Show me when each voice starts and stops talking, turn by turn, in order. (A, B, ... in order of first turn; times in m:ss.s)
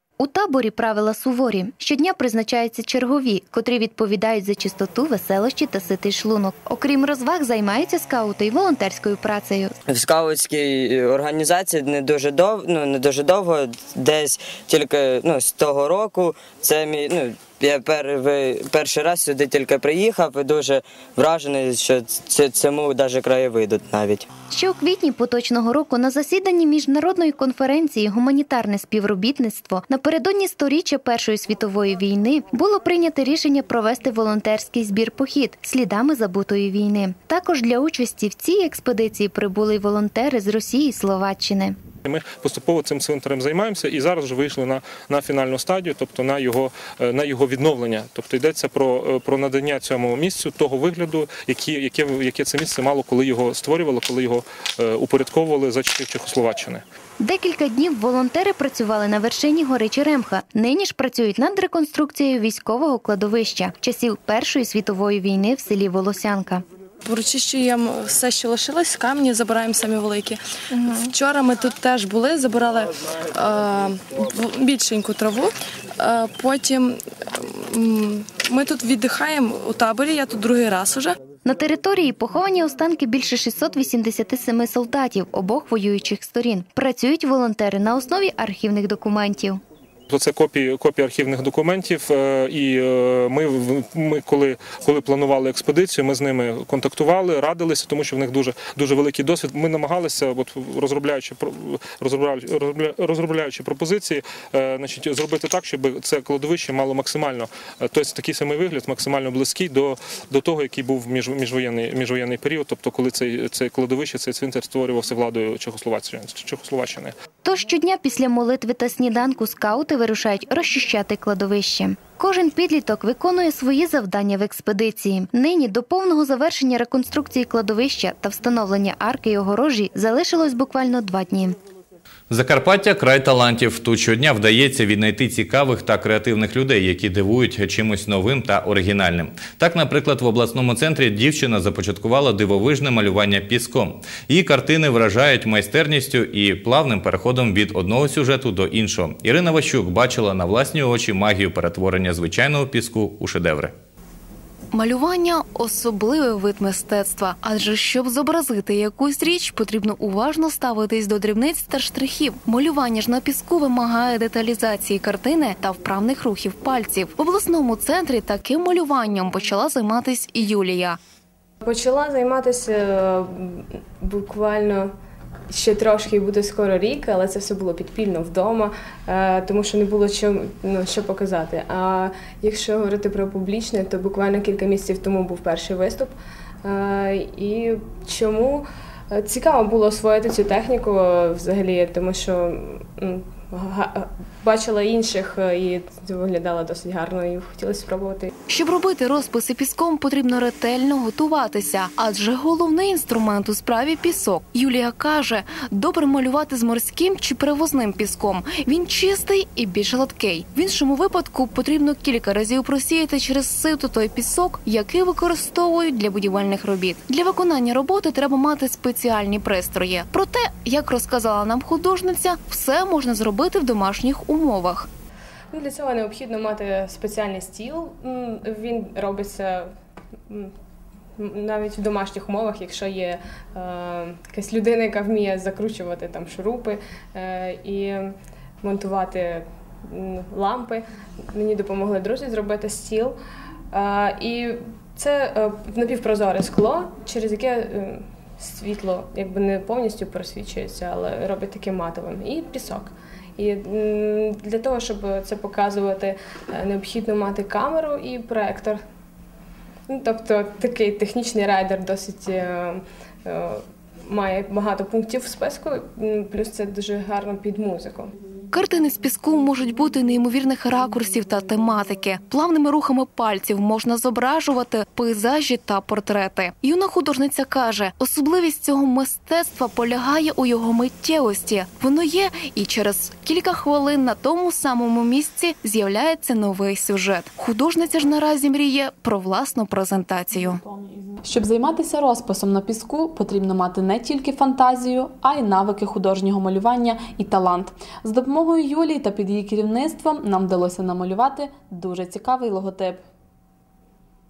0:00.2-0:09.7 A
0:09.9-0:24.3 B
0:24.5-0:41.8 A
0:42.0-0:56.8 C
0:57.2-1:06.6 A
1:07.1-1:21.2 D
1:21.4-1:29.6 A
1:30.1-1:57.1 C
1:57.4-2:11.6 A
2:12.3-2:33.7 E
2:34.7-2:51.0 F
2:51.6-2:54.9 G
2:55.5-3:18.3 G
3:18.5-3:44.9 F
3:45.5-3:49.7 G
3:51.2-4:03.2 G
4:03.7-4:18.8 G
4:19.9-4:28.1 G
4:28.5-4:50.6 F
4:51.2-5:03.0 H